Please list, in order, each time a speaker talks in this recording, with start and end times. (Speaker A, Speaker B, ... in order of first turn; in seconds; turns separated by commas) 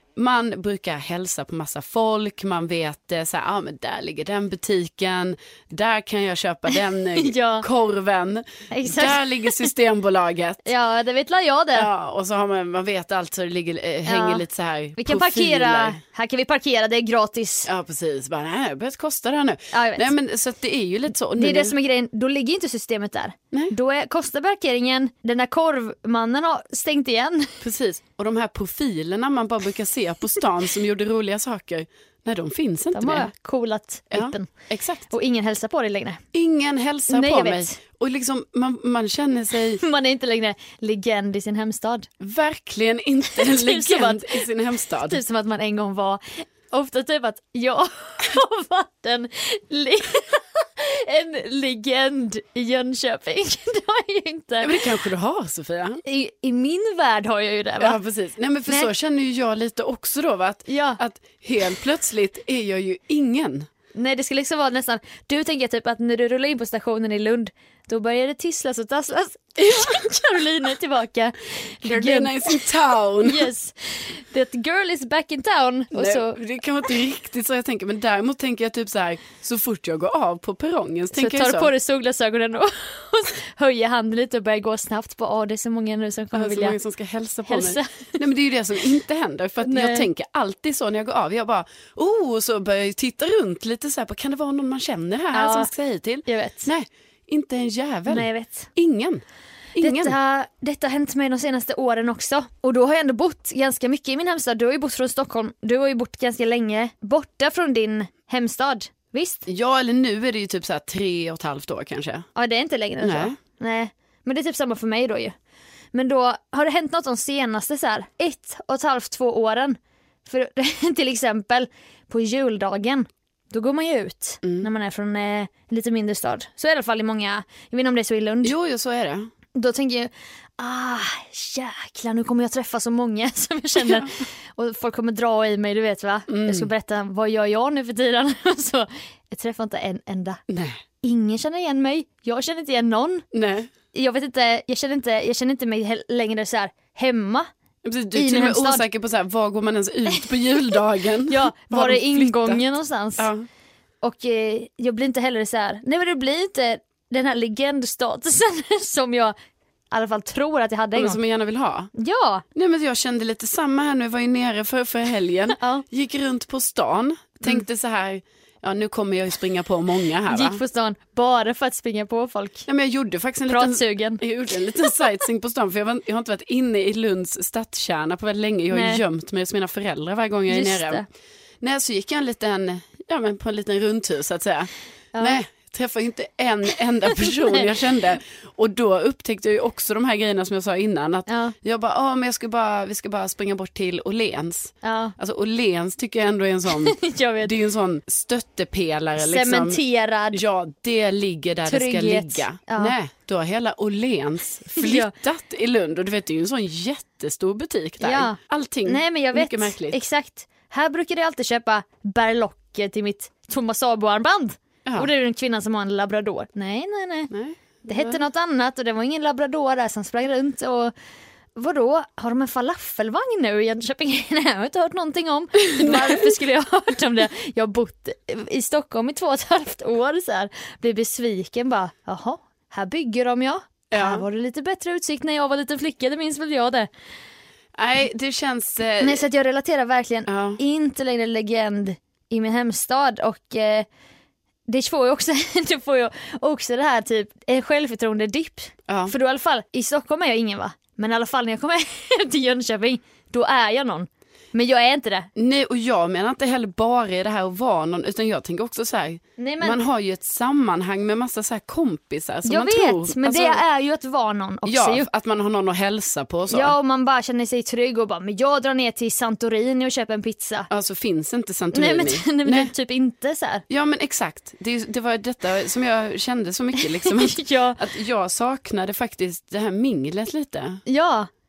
Speaker A: 0.2-10.7, Speaker B: 7.2-7.7, Speaker B: 8.7-9.7, Speaker B: 10.7-11.9, Speaker A: 11.7-16.0, Speaker B: 14.1-14.4, Speaker B: 15.0-17.7, Speaker A: 17.7-21.8, Speaker B: 19.7-20.1, Speaker B: 21.4-27.6, Speaker A: 27.6-33.3, Speaker B: 32.9-34.5, Speaker A: 34.1-35.1, Speaker B: 35.1-36.2, Speaker A: 36.3-39.8, Speaker B: 37.1-37.8, Speaker B: 39.8-42.1, Speaker A: 42.2-45.2, Speaker B: 43.3-54.9, Speaker A: 54.6-56.0, Speaker B: 56.0-58.0, Speaker A: 57.8-63.7, Speaker B: 60.7-61.0, Speaker B: 64.0-76.4, Speaker A: 69.6-70.0, Speaker A: 71.8-73.5, Speaker A: 75.9-81.7, Speaker B: 81.1-86.8, Speaker A: 86.3-99.2, Speaker B: 87.5-88.2, Speaker B: 89.6-90.1, Speaker B: 95.3-95.7, Speaker B: 96.2-96.7, Speaker B: 98.1-98.7, Speaker A: 99.8-100.2, Speaker B: 99.8-109.5, Speaker A: 109.5-112.3, Speaker B: 112.4-115.3, Speaker A: 113.0-113.4, Speaker B: 115.9-128.6, Speaker A: 124.4-124.7, Speaker A: 128.4-129.3, Speaker B: 129.5-140.4, Speaker A: 133.8-134.1, Speaker A: 136.3-136.7, Speaker A: 140.5-140.8, Speaker B: 141.0-143.2, Speaker A: 143.3-143.7, Speaker B: 143.9-147.5, Speaker A: 147.8-152.6, Speaker B: 148.1-148.9, Speaker B: 151.3-153.3, Speaker A: 153.2-153.5, Speaker B: 154.0-159.3, Speaker B: 159.9-161.2, Speaker A: 160.9-161.9, Speaker B: 161.9-162.4, Speaker A: 162.6-170.6, Speaker B: 165.6-165.8, Speaker B: 170.3-172.7, Speaker A: 172.7-181.0, Speaker B: 173.5-174.2, Speaker B: 178.7-179.0, Speaker B: 180.5-181.1, Speaker A: 181.6-199.8, Speaker B: 185.1-185.4, Speaker B: 187.2-187.7, Speaker B: 191.3-191.6, Speaker B: 194.8-195.2, Speaker B: 196.8-197.5, Speaker B: 199.2-200.4, Speaker A: 200.3-210.0, Speaker B: 201.7-202.9, Speaker B: 204.8-205.1, Speaker B: 208.0-217.3, Speaker A: 217.3-218.2, Speaker B: 217.8-220.9, Speaker B: 221.6-236.9, Speaker A: 225.8-226.2, Speaker A: 233.9-234.2, Speaker A: 237.8-239.2, Speaker B: 239.0-243.9, Speaker A: 240.3-240.6, Speaker B: 244.7-255.3, Speaker A: 248.9-249.1, Speaker A: 255.3-263.6, Speaker B: 259.4-259.8, Speaker B: 262.4-265.1, Speaker A: 264.7-266.8, Speaker B: 266.5-270.7, Speaker A: 270.7-272.7, Speaker B: 271.7-273.6, Speaker A: 273.7-280.8, Speaker B: 276.8-277.8, Speaker B: 280.9-281.3